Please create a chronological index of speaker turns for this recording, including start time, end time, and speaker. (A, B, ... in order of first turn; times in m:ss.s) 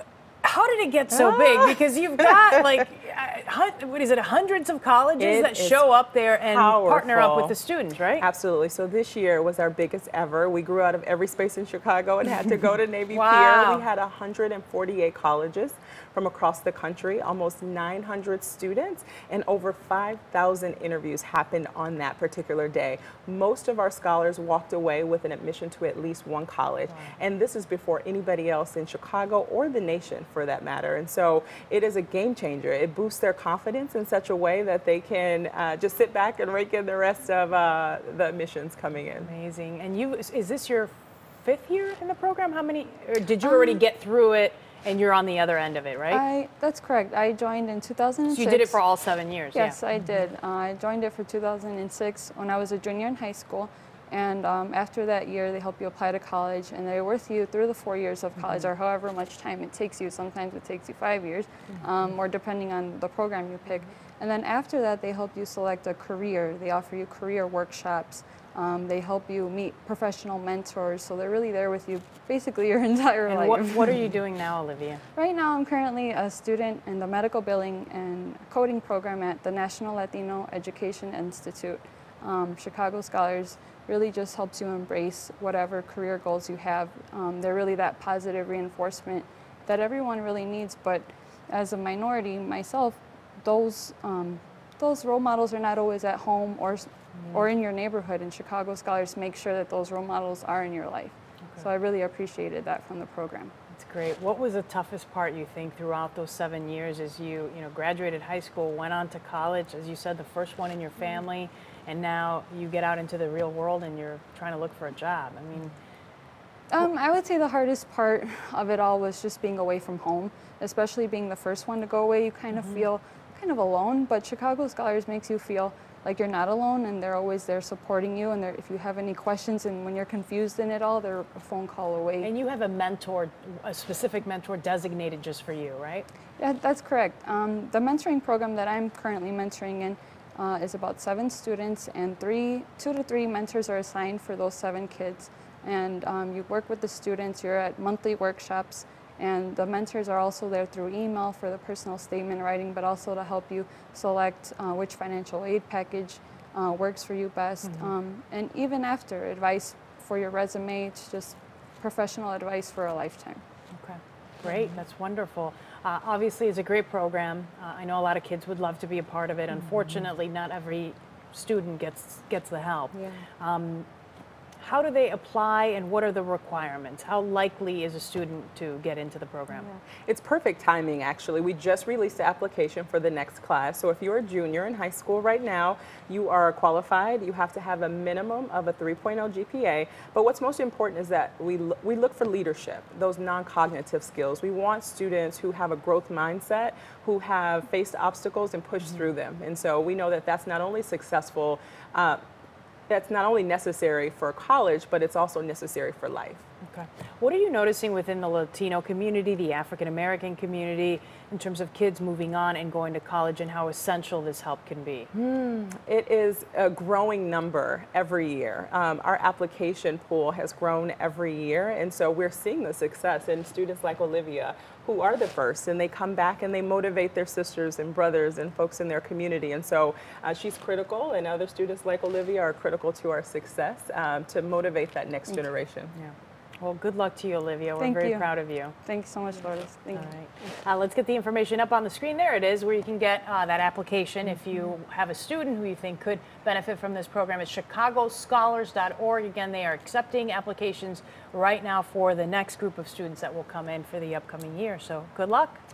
0:00.4-0:08.3 A
0:01.1-0:02.6 B
0:05.2-0:05.9 B
0:06.4-0:07.6 B
0:08.2-0:39.3 B
0:13.1-0:13.9 A
0:39.2-0:46.2 A
0:43.4-0:43.8 C
0:46.1-0:48.8 C
0:48.3-0:49.8 A
0:49.5-1:14.0 C
1:13.3-1:15.0 A
1:15.2-1:43.5 C
1:43.7-1:55.8 A
1:56.7-2:12.3 C
2:02.5-2:02.8 A
2:12.2-2:16.1 A
2:16.4-2:43.4 C
2:37.6-2:37.9 A
2:43.7-2:53.9 A
2:54.6-2:59.7 A
3:00.0-3:22.2 B
3:22.9-3:26.4 B
3:26.6-3:35.1 A
3:35.1-3:55.9 B
3:56.0-3:58.8 A
3:57.8-3:58.3 C
3:58.8-4:00.2 C
3:59.9-4:15.6 A